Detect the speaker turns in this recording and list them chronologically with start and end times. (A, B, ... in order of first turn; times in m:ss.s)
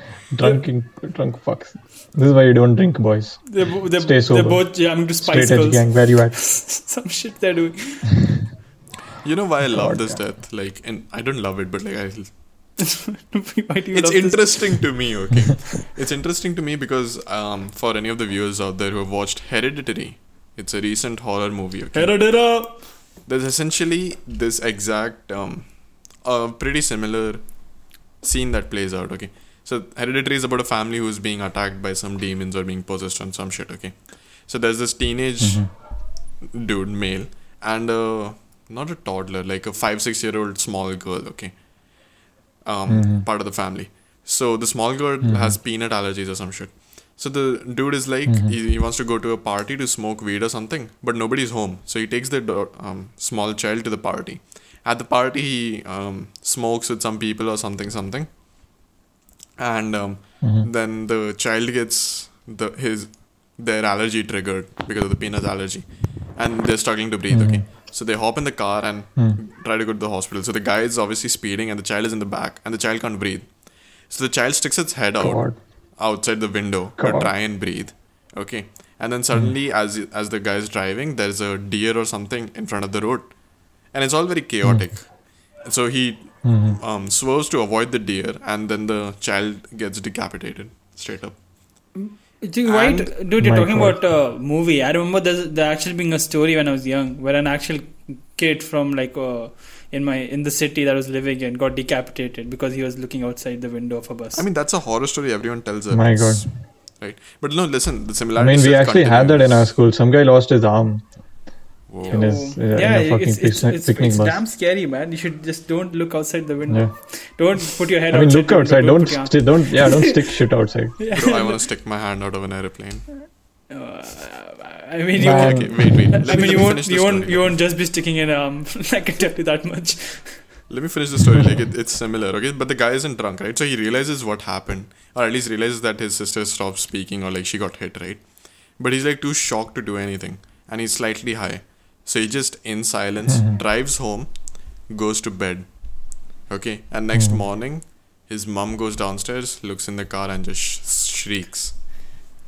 0:00.3-0:06.4 A
0:03.5-0:08.2 B
0:09.2-0:12.3 C
0:09.7-0:10.1 A
0:12.8-0:14.8 B
0:13.9-0:22.2 C
0:21.9-0:22.8 B
0:23.3-0:25.7 C
0:26.2-0:27.4 C
0:28.2-0:35.7 C
0:35.4-0:35.7 A
0:36.4-0:41.5 C
0:42.6-0:58.3 C
0:42.9-0:43.2 A
0:45.2-0:45.6 A
0:48.3-0:48.5 A
0:59.6-1:05.8 C
1:00.4-1:00.7 A
1:06.4-1:13.5 C
1:07.3-1:07.6 A
1:14.1-1:15.4 C
1:15.2-1:15.6 A
1:16.0-1:23.3 C
1:17.0-1:17.3 A
1:23.9-1:25.0 C
1:25.6-1:31.4 C
1:26.4-1:26.8 A
1:31.9-1:44.4 B
1:32.6-1:33.1 C
1:33.4-1:34.0 A
1:44.3-1:46.5 C
1:45.9-1:46.5 A
1:47.0-1:49.7 C
1:48.4-1:51.0 A
1:51.9-1:52.2 C
1:52.1-2:00.4 B
1:52.1-1:54.4 A
1:58.1-2:01.0 A
2:01.0-2:01.6 B
2:01.1-2:03.0 C
2:03.7-2:10.4 B
2:05.2-2:06.4 A
2:05.2-2:07.5 C
2:10.7-2:18.2 C
2:18.8-2:24.3 C
2:23.3-2:23.6 A
2:24.9-2:25.7 C
2:26.5-2:31.7 C
2:27.1-2:27.4 A